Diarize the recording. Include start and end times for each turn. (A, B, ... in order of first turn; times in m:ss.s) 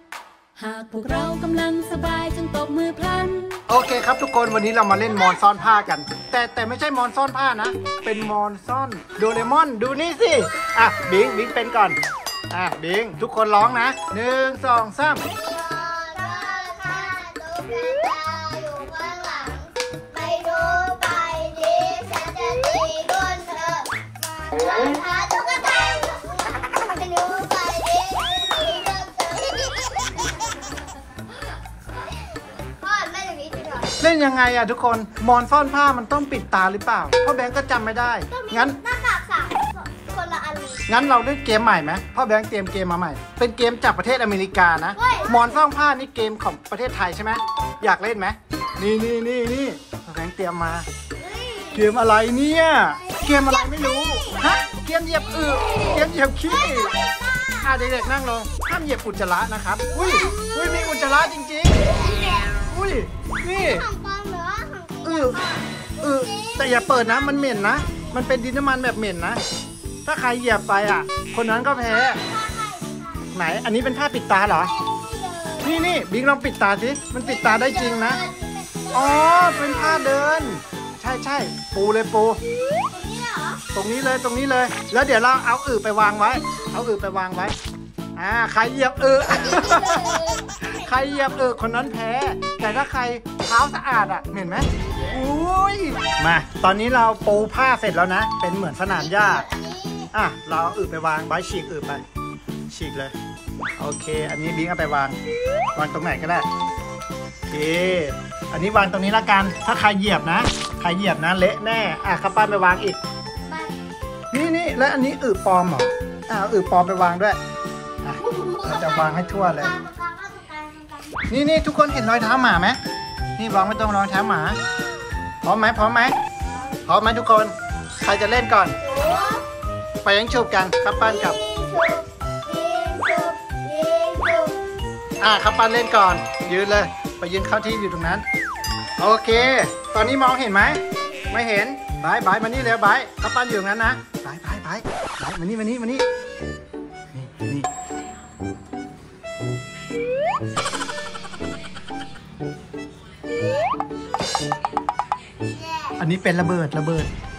0:00.5-0:03.6 A
0:03.7-0:12.0 B
0:12.5-0:15.3 B
0:15.3-0:30.1 C
0:32.6-0:34.0 C
0:34.0-0:38.8 B
0:38.3-0:40.8 C
0:40.9-0:50.9 B
0:45.0-0:45.6 C
0:51.2-0:51.9 C
0:51.7-0:56.9 B
0:53.0-0:54.4 C
0:55.6-0:57.9 C
0:57.6-1:01.9 B
0:59.9-1:02.6 C
1:02.6-1:03.8 B
1:03.4-1:08.2 C
1:05.0-1:05.4 B
1:06.0-1:09.4 B
1:10.0-1:12.2 B
1:11.8-1:13.4 C
1:13.3-1:14.7 B
1:14.6-1:16.0 C
1:15.6-1:18.2 B
1:17.2-1:20.2 C
1:18.9-1:22.4 B
1:22.9-1:23.6 C
1:23.7-1:27.5 B
1:28.2-1:39.5 B
1:29.4-1:31.4 C
1:38.9-1:40.1 C
1:40.1-1:42.0 B
1:42.7-1:43.1 B
1:43.8-1:45.2 B
1:45.7-1:46.5 B
1:47.5-1:53.0 B
1:53.5-1:53.7 C
1:54.3-1:57.4 B
1:58.0-1:59.7 B
1:58.2-2:01.1 C
2:01.3-2:02.8 B
2:03.4-2:04.6 B
2:05.4-2:06.2 B
2:06.8-2:08.8 B
2:08.8-2:09.4 C
2:10.0-2:11.4 B
2:11.0-2:14.6 C
2:15.2-2:18.2 B
2:19.0-2:26.0 B
2:27.1-2:27.7 B
2:35.6-2:36.0 C
2:36.0-2:37.1 B